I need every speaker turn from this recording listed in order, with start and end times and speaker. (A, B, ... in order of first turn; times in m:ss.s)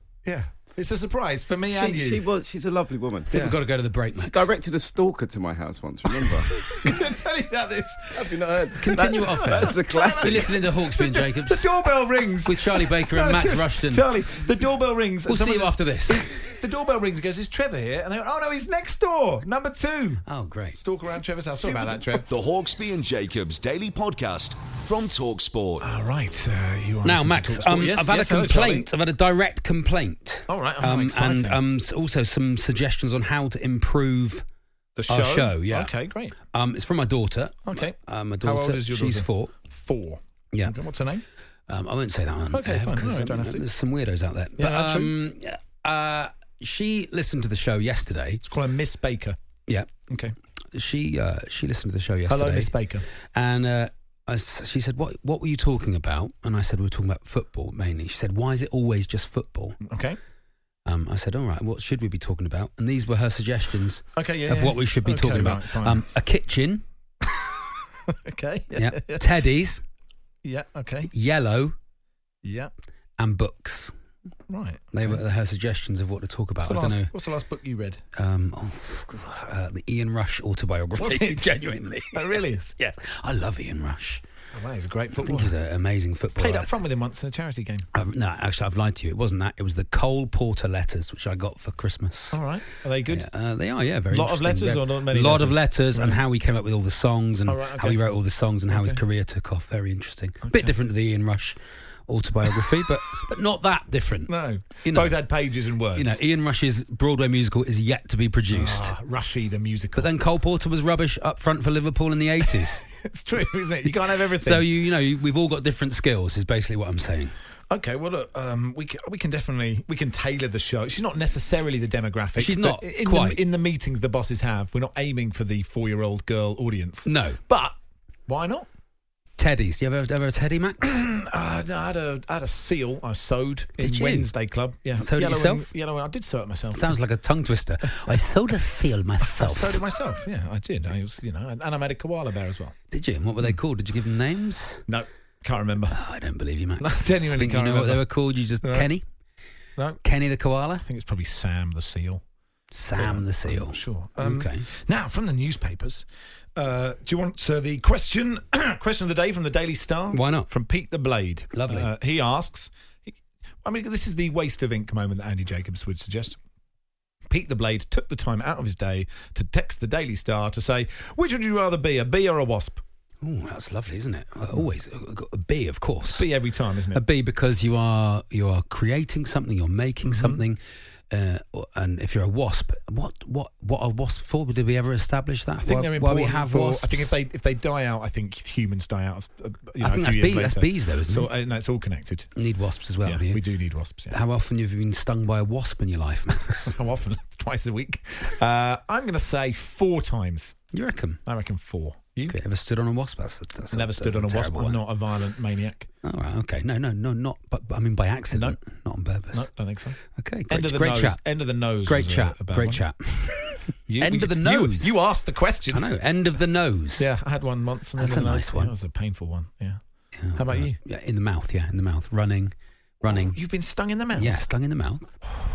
0:00.2-0:02.2 A
0:01.7-0:03.3 B
0:03.3-0:04.5 C
0:03.3-0:03.6 A
0:04.2-0:06.5 B
0:06.6-0:22.3 A
0:08.2-0:10.5 B
0:08.8-0:11.7 C
0:12.4-0:14.0 C
0:15.3-0:16.6 C
0:20.3-0:20.8 C
0:22.3-0:25.8 D
0:25.8-0:28.9 A
0:27.0-0:34.4 C
0:30.5-0:31.6 A
0:35.0-0:36.4 A
0:35.1-0:35.9 C
0:36.5-0:39.6 C
0:37.7-0:41.2 A
0:41.7-0:48.4 C
0:42.5-0:43.6 A
0:44.6-0:45.1 A
0:48.4-0:49.4 A
0:50.1-0:50.3 A
0:50.7-0:52.7 C
0:52.3-0:53.1 A
0:53.3-0:59.8 C
0:59.8-1:00.2 A
1:00.8-1:06.8 C
1:04.2-1:06.0 A
1:08.1-1:09.3 A
1:08.8-1:09.8 C
1:10.4-1:11.1 A
1:11.1-1:11.7 C
1:12.4-1:12.7 A
1:13.2-1:13.9 C
1:14.5-1:15.2 A
1:14.9-1:17.1 C
1:16.6-1:18.0 A
1:18.1-1:24.2 C
1:21.0-1:21.5 A
1:22.1-1:22.8 A
1:24.5-1:25.5 A
1:25.2-1:26.7 C
1:26.4-1:27.9 A
1:27.9-1:32.4 C
1:32.3-1:33.2 A
1:33.1-1:45.2 C
1:34.1-1:36.2 A
1:37.5-1:38.0 A
1:38.7-1:39.0 A
1:40.5-1:40.7 A
1:44.3-1:46.2 A
1:45.9-1:48.9 C
1:48.5-1:50.1 A
1:50.0-1:52.9 C
1:52.6-1:54.6 A
1:54.4-1:57.3 C
1:57.7-2:07.8 A
2:02.4-2:03.4 C
2:07.0-2:07.4 C
2:08.3-2:08.7 A
2:09.4-2:11.0 C
2:10.8-2:16.9 A
2:13.8-2:14.3 C
2:15.0-2:15.7 C
2:16.7-2:19.8 C
2:19.2-2:22.8 A
2:22.9-2:24.8 C
2:24.9-2:26.0 A
2:25.9-2:29.0 C
2:26.8-2:28.0 A
2:28.6-2:28.9 A
2:30.0-2:30.8 C
2:30.8-2:32.2 A
2:32.7-2:34.6 C
2:32.9-2:46.4 A
2:40.1-2:40.5 C
2:41.5-2:41.9 C
2:47.3-2:52.8 A
2:53.2-2:56.3 C
2:56.1-2:57.0 A
2:56.9-3:00.6 C
3:00.0-3:00.4 A
3:01.1-3:07.2 C
3:05.6-3:12.3 A
3:09.8-3:11.3 C
3:12.4-3:13.4 C
3:13.0-3:14.2 A
3:14.1-3:16.7 C
3:16.7-3:20.6 A
3:20.7-3:21.2 C
3:21.2-3:22.4 A
3:22.3-3:24.8 C
3:23.7-3:25.9 A
3:26.0-3:29.5 C
3:28.3-3:28.6 A
3:29.3-3:32.8 A
3:30.2-3:31.2 C
3:31.8-3:35.0 C
3:33.9-3:35.9 A
3:35.7-3:37.1 C
3:37.0-3:39.8 A
3:38.0-3:38.7 C
3:40.2-3:43.4 C
3:40.3-3:40.8 A
3:43.0-3:44.4 A
3:44.1-3:45.2 C